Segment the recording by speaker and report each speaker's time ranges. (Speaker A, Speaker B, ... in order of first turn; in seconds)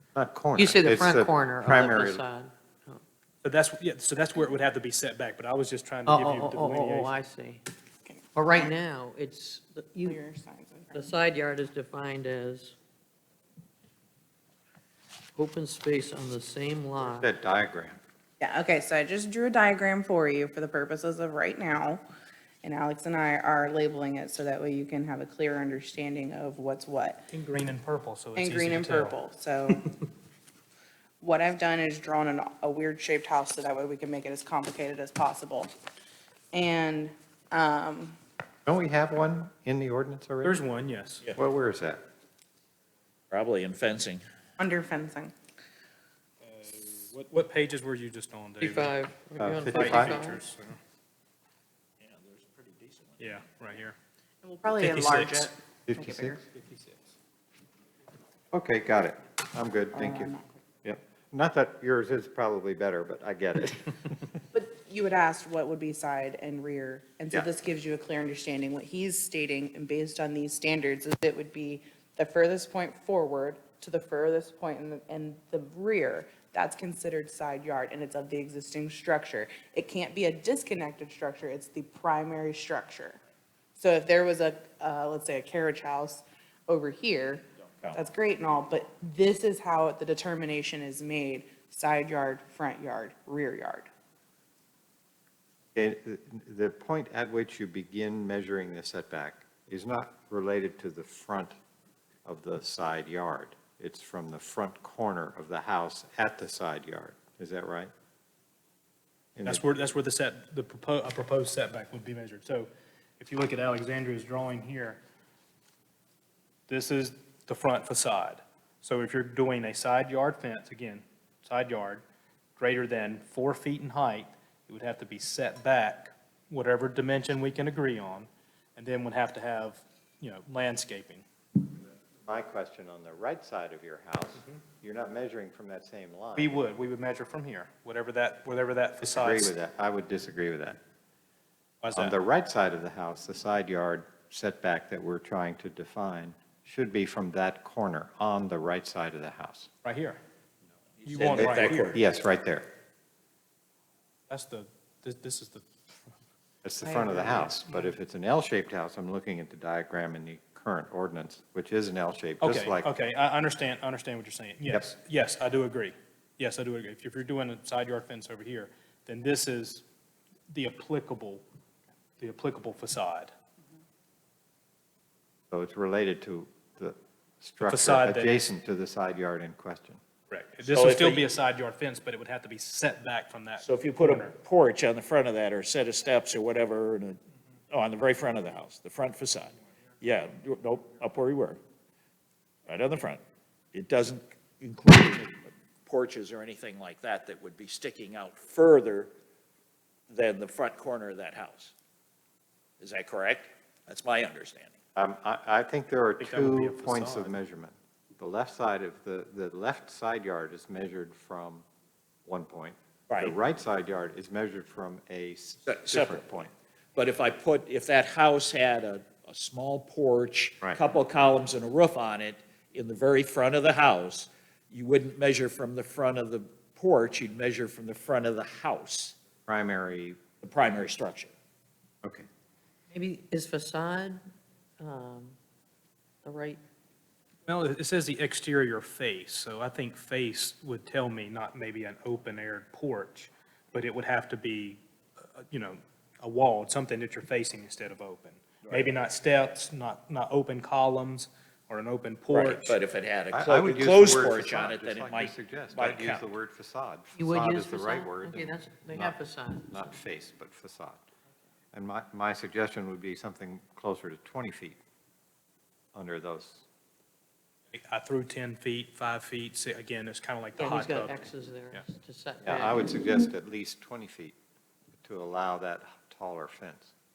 Speaker A: 0.1-2.2, 17.0-18.0, 38.6-40.6, 41.4-42.0, 49.4-50.2, 55.9-56.4, 58.5-60.3, 60.8-64.2, 95.7-101.5, 102.2-107.9, 109.3-109.6, 132.2-136.6, 139.0-140.8, 141.9-149.7, 151.3-152.7, 156.6-162.9, 175.5-180.0, 204.9-211.6, 212.2-216.5, 229.5-230.2, 253.3-261.0, 261.7-264.8, 265.9-266.6, 272.4-274.4, 275.0-276.9
Speaker B: 0.5-3.0, 6.0-7.6, 8.3-10.2, 10.9-12.8, 15.3-17.3, 48.6-50.4, 232.9-234.2, 234.8-235.3, 236.2-236.6, 257.1-259.9, 270.6-273.1
Speaker C: 3.4-7.1, 27.3-29.2, 40.4-41.2, 46.4-49.0, 49.6-50.8, 53.2-54.0, 54.8-55.5, 56.5-57.1, 109.4-115.0, 116.7-122.0, 122.6-131.2, 136.3-139.5, 141.8-142.2, 149.8-150.2, 151.0-152.0, 154.3-155.7, 162.4-169.8, 170.5-171.4, 172.2-173.3, 177.6-178.4, 180.3-184.3, 206.2-207.3, 237.5-244.8, 245.3-252.7, 267.7-271.3
Speaker D: 8.1-8.7, 10.0-11.2, 18.4-22.0, 22.6-27.3, 28.4-29.9, 31.2-35.7, 36.5-38.2, 44.6-45.3, 54.4-56.4, 59.9-60.5, 64.5-83.2, 83.8-93.9
Speaker E: 43.3-44.2, 52.0-53.5, 151.0-152.0, 180.6-181.2, 183.6-187.2, 187.7-191.6, 192.7-193.2, 193.7-199.1, 200.1-201.7, 202.8-204.8, 213.1-213.3, 215.7-229.2, 230.4-231.3, 252.3-256.3